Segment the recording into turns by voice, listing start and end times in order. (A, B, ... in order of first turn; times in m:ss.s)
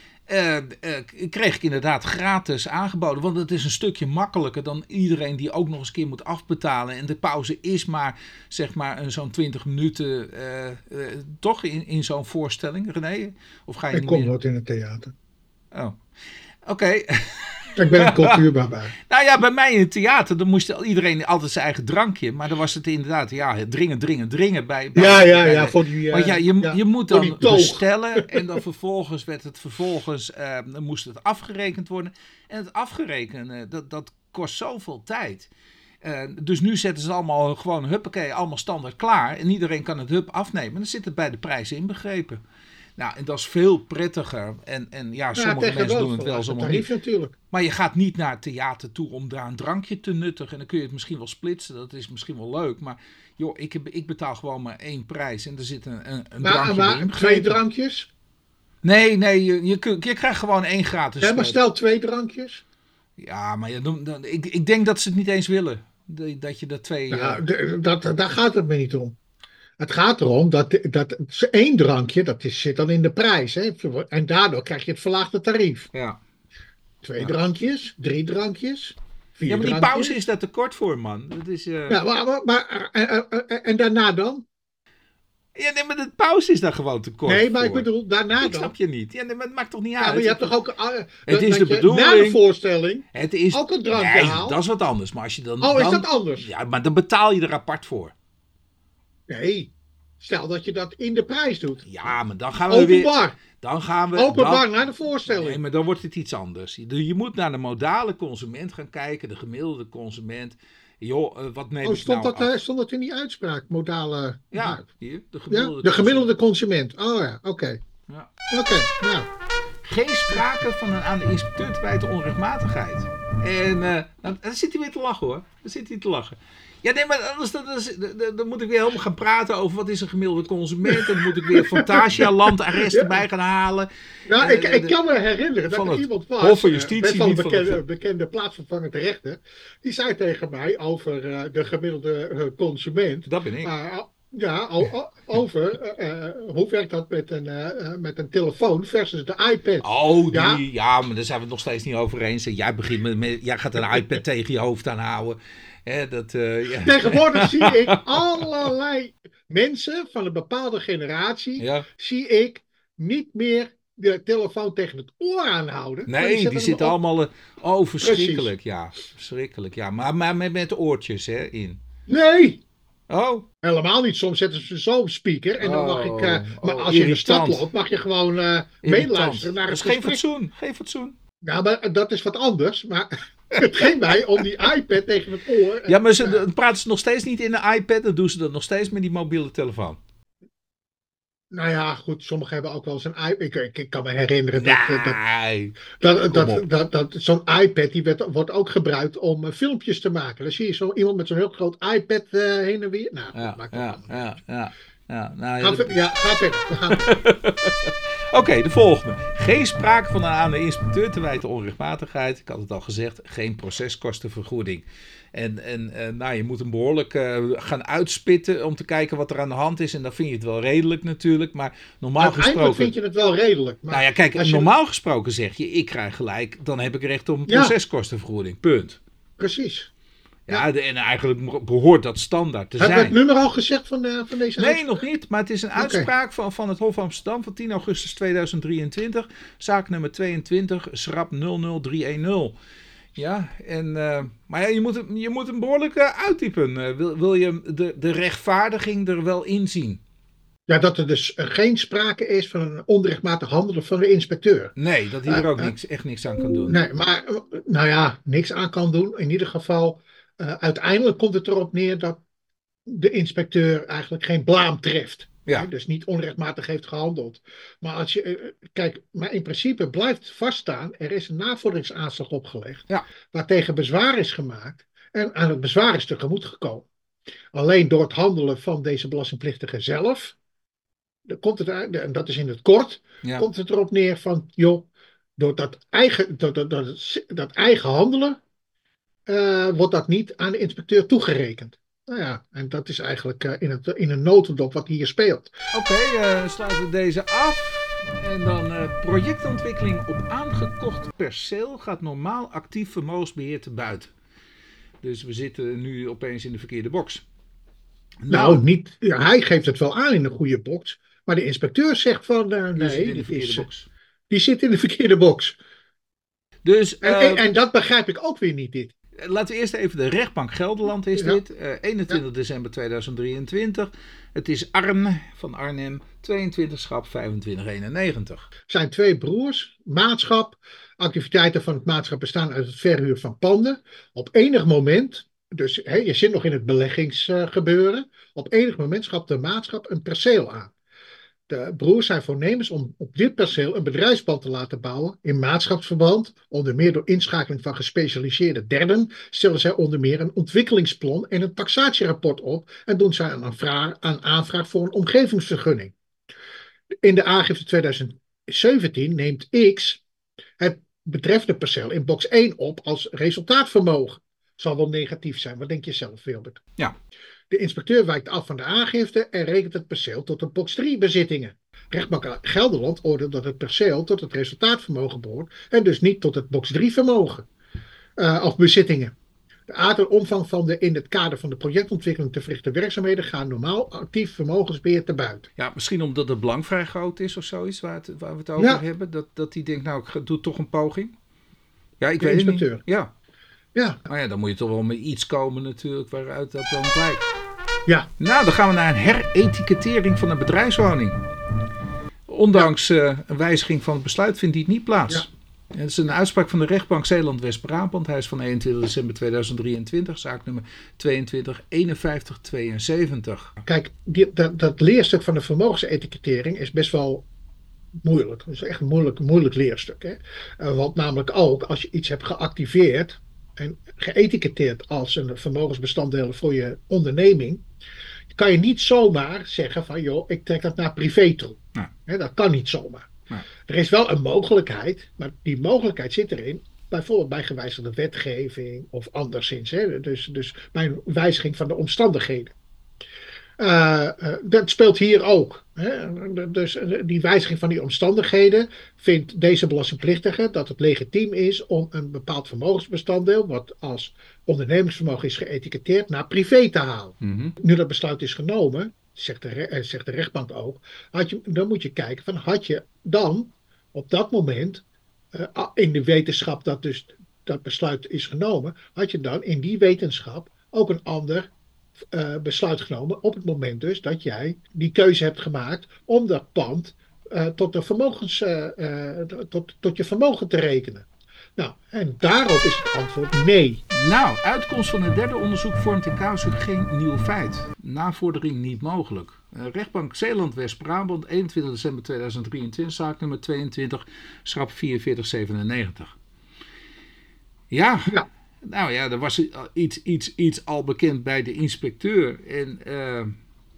0:00.3-0:14.3 A
0:13.9-0:15.1 B
0:15.7-0:16.0 A
0:16.6-0:18.4 A
0:17.8-0:18.9 B
0:19.0-0:35.5 A
0:24.9-0:28.4 B
0:36.0-0:42.4 A
0:43.0-0:46.9 A
0:45.3-0:47.3 B
0:47.5-0:57.6 A
0:56.4-0:58.1 B
0:58.8-1:01.6 A
1:01.2-1:02.6 B
1:03.2-1:07.4 A
1:07.1-1:09.2 B
1:09.8-1:15.9 B
1:15.9-1:16.2 A
1:17.0-1:20.2 B
1:19.4-1:22.0 A
1:21.9-1:24.4 B
1:25.6-1:27.9 A
1:27.2-1:28.7 B
1:28.4-1:30.5 A
1:30.0-1:34.6 B
1:31.3-1:32.4 A
1:33.1-1:38.1 A
1:35.6-1:36.5 B
1:39.3-1:41.8 B
1:41.8-1:44.7 A
1:42.7-1:43.4 B
1:44.1-1:45.6 B
1:45.2-1:52.5 A
1:51.8-1:54.8 B
1:54.5-1:56.3 A
1:55.5-1:57.8 B
1:58.5-1:59.3 B
1:59.8-2:15.0 A
2:10.9-2:13.2 B
2:14.3-2:30.6 B
2:15.7-2:17.8 A
2:23.2-2:23.7 A
2:29.8-2:38.5 A
2:36.8-2:47.0 B
2:41.6-2:41.8 A
2:46.1-2:51.8 A
2:48.0-2:48.5 B
2:52.1-2:52.6 B
2:53.1-2:53.4 A
2:53.6-3:00.2 B
2:55.6-2:57.7 A
2:58.8-3:01.1 A
3:01.4-3:06.4 B
3:03.6-3:04.2 A
3:05.9-3:10.0 A
3:11.5-3:15.2 B
3:14.6-3:16.6 A
3:16.0-3:24.3 B
3:23.3-3:26.0 A
3:25.6-3:27.1 B
3:26.7-3:42.9 A
3:42.2-3:44.7 B
3:43.9-3:49.0 A
3:47.5-3:47.7 B
3:49.4-3:49.9 B
3:50.5-3:53.2 A
3:52.8-3:55.0 B
3:54.6-4:02.5 A
3:55.8-3:56.1 B
4:03.1-4:10.0 A
4:10.7-4:14.7 B
4:14.8-4:16.8 A
4:15.3-4:15.7 B
4:16.7-4:22.2 B
4:22.9-4:36.9 B
4:37.5-4:40.4 B
4:41.3-4:48.4 B
4:49.3-4:55.5 B
4:55.7-5:04.1 A
5:05.0-5:07.2 A
5:08.2-5:08.6 A
5:08.3-5:13.7 B
5:12.8-5:13.9 A
5:14.3-5:15.6 B
5:16.6-5:17.4 A
5:17.0-5:18.9 B
5:19.2-5:28.5 A
5:21.1-5:21.4 B
5:28.7-5:40.7 B
5:41.5-5:55.9 B
5:57.0-6:00.0 B
6:00.6-6:06.6 B
6:07.5-6:17.5 B
6:18.2-6:19.1 B
6:19.7-6:25.5 B
6:25.6-6:31.1 A
6:32.0-6:33.1 A
6:32.2-6:32.8 B
6:33.7-6:34.0 B
6:34.1-6:37.3 A
6:38.2-6:41.2 A
6:42.3-6:53.5 A
6:53.6-6:57.2 B
6:58.0-7:07.6 B
7:08.3-7:13.1 B
7:13.7-7:22.5 B
7:23.6-7:51.5 B
7:37.2-7:37.5 A
7:52.1-8:03.8 B
8:03.9-8:16.2 A
8:17.7-8:23.3 A